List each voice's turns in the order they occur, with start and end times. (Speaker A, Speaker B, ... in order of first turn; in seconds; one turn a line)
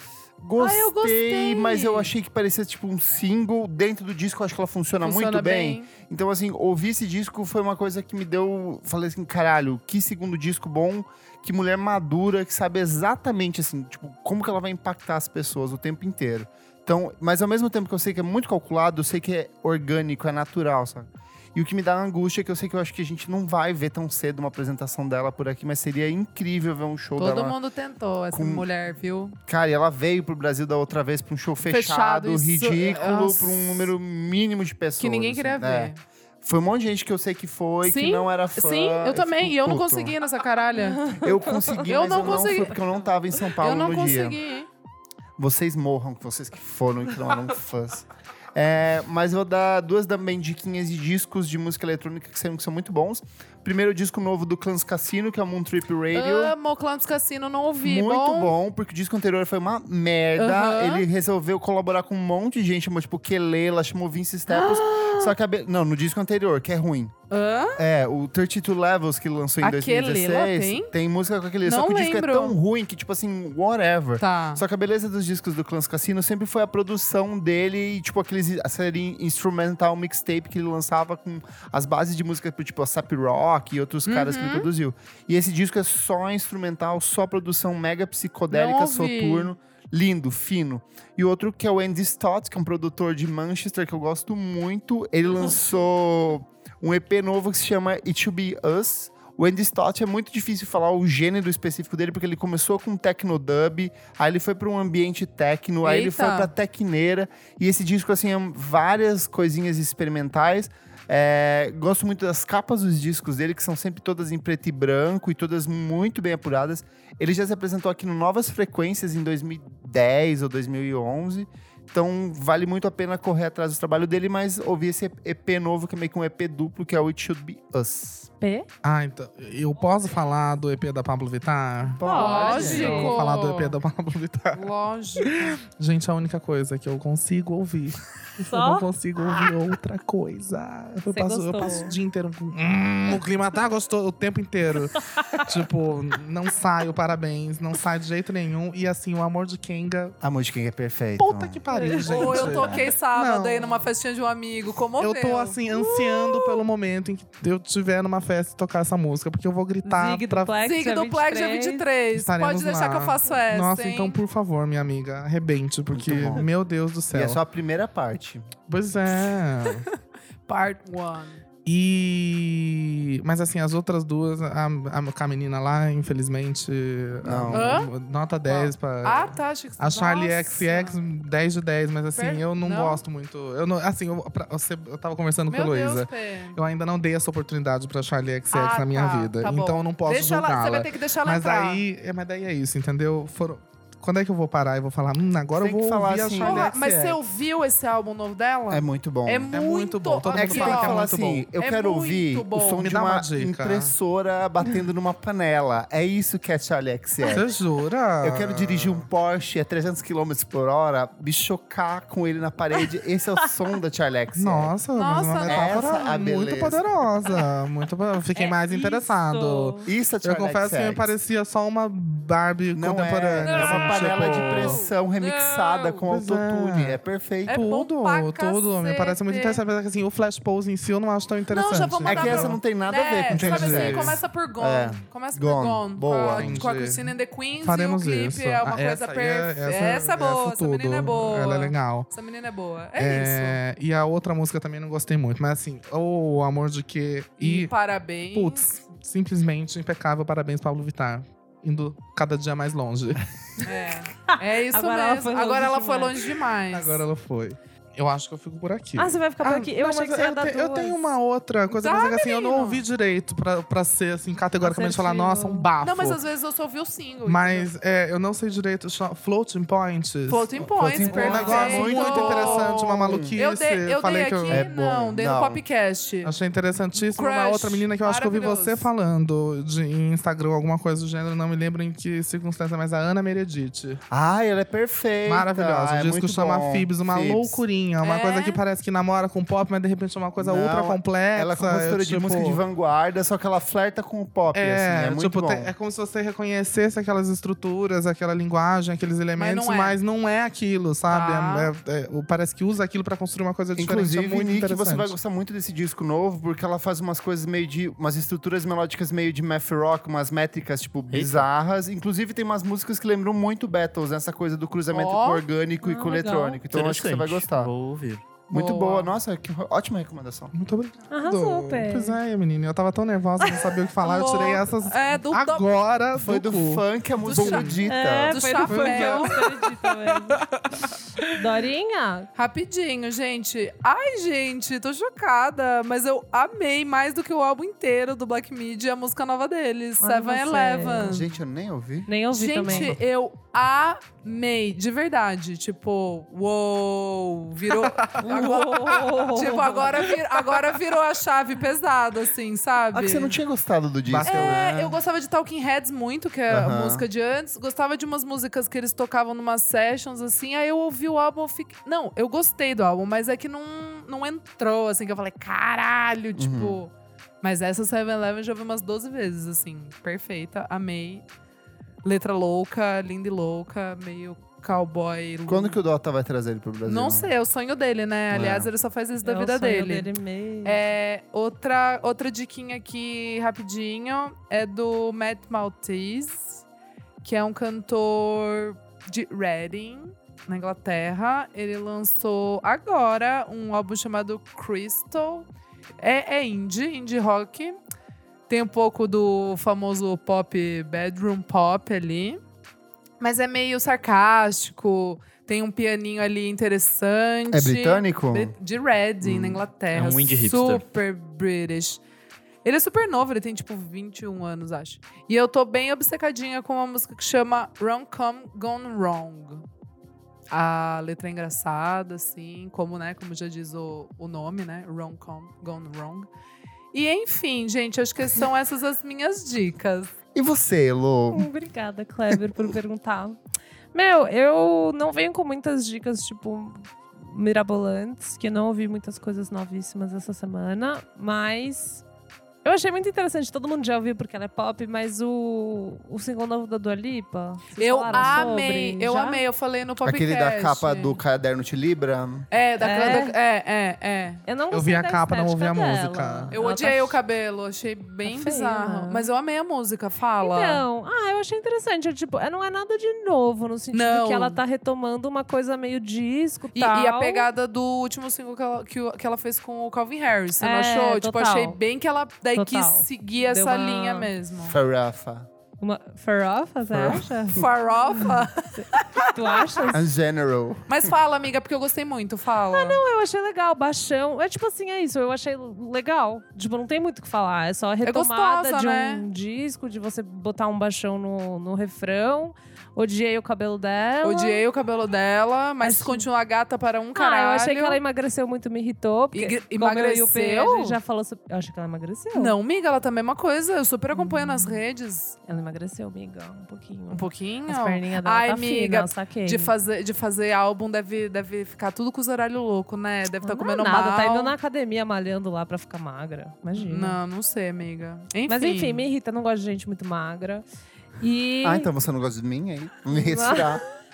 Speaker A: 0.4-27.6
Speaker B: 0.6-2.1
Speaker B: 5.0-5.9
Speaker B: 27.2-29.4
Speaker A: 28.3-28.7
Speaker A: 29.5-40.2
Speaker B: 31.7-33.9
Speaker B: 35.0-36.0
Speaker B: 37.8-41.2
Speaker C: 40.8-41.9
Speaker A: 41.2-44.4
Speaker B: 41.9-44.7
Speaker A: 45.4-56.5
Speaker B: 56.1-58.5
Speaker A: 57.8-67.1
Speaker B: 60.4-61.0
Speaker B: 64.5-65.3
Speaker B: 67.3-67.8
Speaker A: 67.8-128.3
Speaker B: 69.6-70.9
Speaker B: 71.6-72.6
Speaker B: 74.2-74.6
Speaker B: 84.1-84.7
Speaker B: 88.5-89.5
Speaker B: 105.8-106.5
Speaker C: 128.4-128.7
Speaker D: 128.8-134.7
Speaker A: 132.0-133.1
Speaker C: 132.0-133.2
Speaker B: 132.1-133.8
Speaker B: 134.5-135.6
Speaker D: 135.2-150.2
Speaker C: 138.4-138.9
Speaker C: 141.1-142.0
Speaker A: 150.2-151.6
Speaker D: 151.2-153.9
Speaker C: 151.7-152.4
Speaker B: 152.0-156.6
Speaker A: 152.2-152.8
Speaker D: 155.0-160.5
Speaker C: 159.8-161.9
Speaker B: 160.6-164.2
Speaker D: 162.2-167.4
Speaker A: 165.9-166.5
Speaker A: 167.1-168.5
Speaker D: 168.7-169.9
Speaker B: 169.2-169.9
Speaker B: 170.5-171.4
Speaker D: 171.7-196.8
Speaker A: 177.2-177.8
Speaker B: 177.5-177.9
Speaker B: 178.5-181.0
Speaker B: 182.2-183.0
Speaker B: 185.5-186.6
Speaker B: 188.5-191.8
Speaker A: 195.6-197.2
Speaker B: 196.4-202.9
Speaker A: 198.7-199.5
Speaker D: 199.5-201.5
Speaker A: 200.3-207.5
Speaker D: 202.8-203.9
Speaker D: 207.3-209.1
Speaker A: 208.2-214.8
Speaker D: 214.3-224.8
Speaker B: 215.0-216.2
Speaker A: 215.5-217.0
Speaker B: 218.7-219.0
Speaker C: 219.3-219.9
Speaker A: 219.9-221.1
Speaker A: 222.7-227.6
Speaker C: 223.4-224.2
Speaker B: 224.1-225.9
Speaker D: 226.1-232.6
Speaker B: 227.5-229.6
Speaker B: 231.5-243.6
Speaker A: 232.1-236.7
Speaker D: 233.3-234.2
Speaker D: 236.3-242.1
Speaker D: 243.0-247.7
Speaker B: 247.4-248.7
Speaker D: 248.3-253.2
Speaker B: 253.6-257.0
Speaker C: 254.3-256.2
Speaker D: 256.7-266.2
Speaker C: 259.0-261.0
Speaker B: 261.8-262.8
Speaker C: 264.6-265.7
Speaker B: 265.8-267.7
Speaker D: 267.2-274.7
Speaker B: 270.3-276.3
Speaker A: 270.8-273.4
Speaker A: 274.5-275.6
Speaker D: 276.2-284.0
Speaker B: 277.0-278.9
Speaker A: 284.1-287.6
Speaker D: 285.3-292.6
Speaker B: 288.0-288.6
Speaker A: 290.4-295.7
Speaker D: 294.5-305.2
Speaker B: 299.4-300.0
Speaker B: 301.1-301.7
Speaker A: 303.8-317.7
Speaker E: 311.1-311.5
Speaker B: 314.9-315.4
Speaker C: 315.8-316.6
Speaker E: 316.7-318.4
Speaker A: 318.5-320.5
Speaker B: 318.5-319.1
Speaker D: 320.5-327.8
Speaker C: 321.1-322.2
Speaker B: 324.0-325.6
Speaker A: 326.1-328.4
Speaker B: 327.2-329.4
Speaker C: 327.9-330.5
Speaker D: 328.6-331.3
Speaker C: 331.3-332.3
Speaker B: 332.4-341.4
Speaker C: 340.0-341.2
Speaker A: 341.0-342.1
Speaker C: 342.1-343.0
Speaker B: 342.3-353.4
Speaker A: 342.6-342.9
Speaker D: 347.7-349.2
Speaker C: 348.2-350.0
Speaker D: 350.1-350.6
Speaker A: 352.9-355.0
Speaker D: 354.1-354.7
Speaker B: 354.2-366.9
Speaker A: 356.5-357.1
Speaker A: 366.4-366.8
Speaker B: 367.4-371.2
Speaker B: 372.0-375.8
Speaker A: 375.5-377.3
Speaker B: 376.9-380.1
Speaker A: 378.3-378.7
Speaker C: 379.2-380.8
Speaker B: 380.6-386.6
Speaker B: 387.2-395.5
Speaker B: 396.0-397.8
Speaker B: 398.5-402.4
Speaker B: 403.2-412.0
Speaker A: 407.5-408.6
Speaker A: 409.2-409.6
Speaker E: 409.9-410.8
Speaker B: 412.6-419.7
Speaker B: 420.5-426.3
Speaker B: 426.9-430.1
Speaker A: 430.4-431.5
Speaker C: 431.3-433.4
Speaker C: 433.9-442.1
Speaker C: 442.6-449.4
Speaker B: 447.8-451.2
Speaker A: 450.0-452.5
Speaker B: 452.5-454.4
Speaker C: 452.8-453.4
Speaker C: 454.5-457.2
Speaker D: 454.7-456.6
Speaker B: 456.5-460.8
Speaker C: 458.2-459.3
Speaker C: 460.4-467.5
Speaker B: 463.9-464.6
Speaker B: 466.8-474.8
Speaker C: 470.6-471.8
Speaker C: 472.6-474.3
Speaker A: 474.6-475.5
Speaker C: 475.8-480.0
Speaker A: 476.9-477.6
Speaker B: 477.5-479.9
Speaker A: 479.9-481.1
Speaker B: 480.9-483.0
Speaker C: 482.7-494.6
Speaker B: 488.0-489.3
Speaker B: 494.2-498.0
Speaker C: 495.8-496.3
Speaker C: 497.2-502.6
Speaker B: 499.3-501.0
Speaker B: 502.3-505.4
Speaker C: 504.1-504.8
Speaker C: 505.5-509.7
Speaker B: 507.1-514.5
Speaker C: 513.4-517.2
Speaker B: 516.8-519.1
Speaker C: 518.5-520.6
Speaker C: 521.2-521.9
Speaker A: 521.6-523.8
Speaker C: 523.1-523.8